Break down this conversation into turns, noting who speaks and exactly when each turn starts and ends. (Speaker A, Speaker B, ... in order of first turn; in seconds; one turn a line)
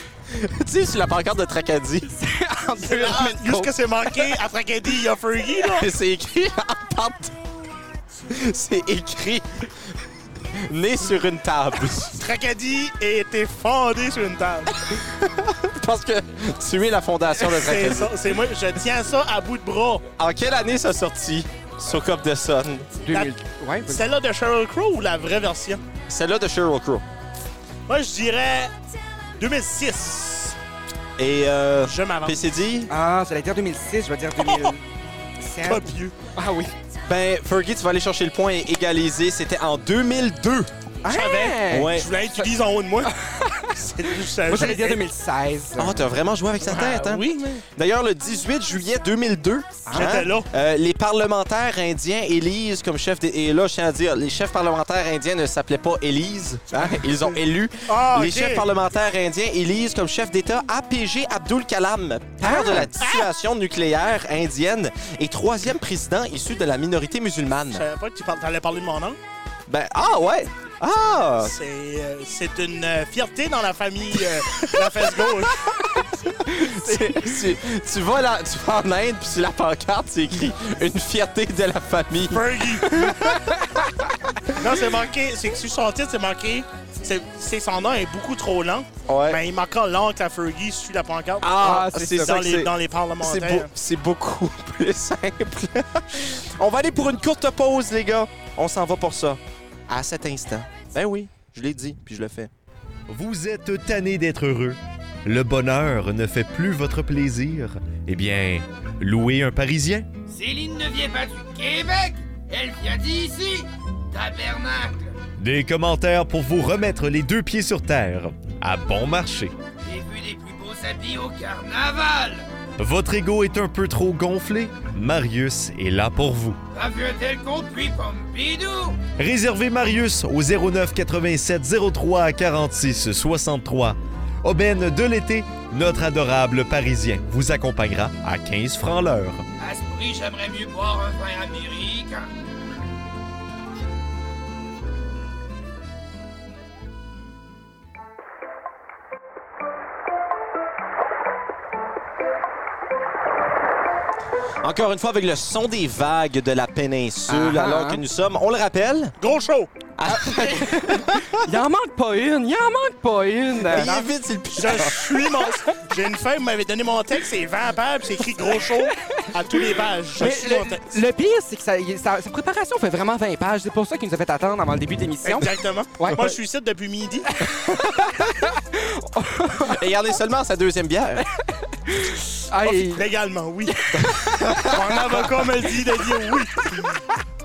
Speaker A: 0.3-2.1
Speaker B: 2.0-4.2
Speaker C: 2.8-5.9
Speaker A: 5.7-7.4
Speaker A: 8.2-12.2
Speaker C: 12.1-14.7
Speaker A: 14.8-18.2
Speaker C: 17.4-20.0
Speaker A: 20.2-23.0
Speaker B: 23.0-24.0
Speaker C: 23.9-25.8
Speaker A: 26.1-27.0
Speaker C: 27.9-28.7
Speaker C: 29.4-30.6
Speaker A: 31.2-32.9
Speaker C: 31.8-32.5
Speaker B: 32.9-34.8
Speaker C: 34.4-34.7
Speaker B: 35.4-36.7
Speaker C: 35.6-36.1
Speaker A: 37.0-40.7
Speaker B: 41.0-42.4
Speaker C: 41.1-43.1
Speaker A: 41.7-42.1
Speaker B: 43.0-46.1
Speaker C: 43.7-45.0
Speaker A: 45.8-67.8
Speaker C: 46.6-47.6
Speaker B: 49.9-50.2
Speaker C: 49.9-50.5
Speaker B: 56.7-57.2
Speaker C: 57.9-58.6
Speaker B: 62.4-62.9
Speaker C: 63.0-63.3
Speaker C: 67.7-69.2
Speaker A: 69.7-71.5
Speaker C: 71.4-75.8
Speaker A: 74.5-75.4
Speaker B: 76.3-77.4
Speaker A: 76.5-83.5
Speaker C: 82.3-83.1
Speaker B: 83.2-84.1
Speaker C: 84.5-91.5
Speaker A: 89.0-89.4
Speaker A: 91.4-102.5
Speaker B: 91.5-92.4
Speaker C: 92.2-93.7
Speaker D: 103.1-110.1
Speaker E: 110.3-115.2
Speaker D: 115.4-119.5
Speaker E: 119.8-122.5
Speaker D: 122.8-126.6
Speaker E: 126.7-129.0
Speaker D: 129.1-139.4
Speaker E: 139.6-142.3
Speaker A: 154.6-159.1
Speaker B: 157.3-158.0
Speaker C: 159.2-159.7
Speaker A: 160.0-161.4
Speaker B: 160.0-164.1
Speaker A: 163.6-165.2
Speaker C: 164.5-171.0
Speaker B: 168.9-169.3
Speaker B: 170.2-176.3
Speaker C: 175.2-177.3
Speaker B: 177.4-179.8
Speaker A: 177.6-178.1
Speaker A: 179.6-181.2
Speaker B: 181.4-183.1
Speaker C: 182.6-183.8
Speaker B: 183.7-184.8
Speaker A: 184.0-185.3
Speaker C: 184.5-187.0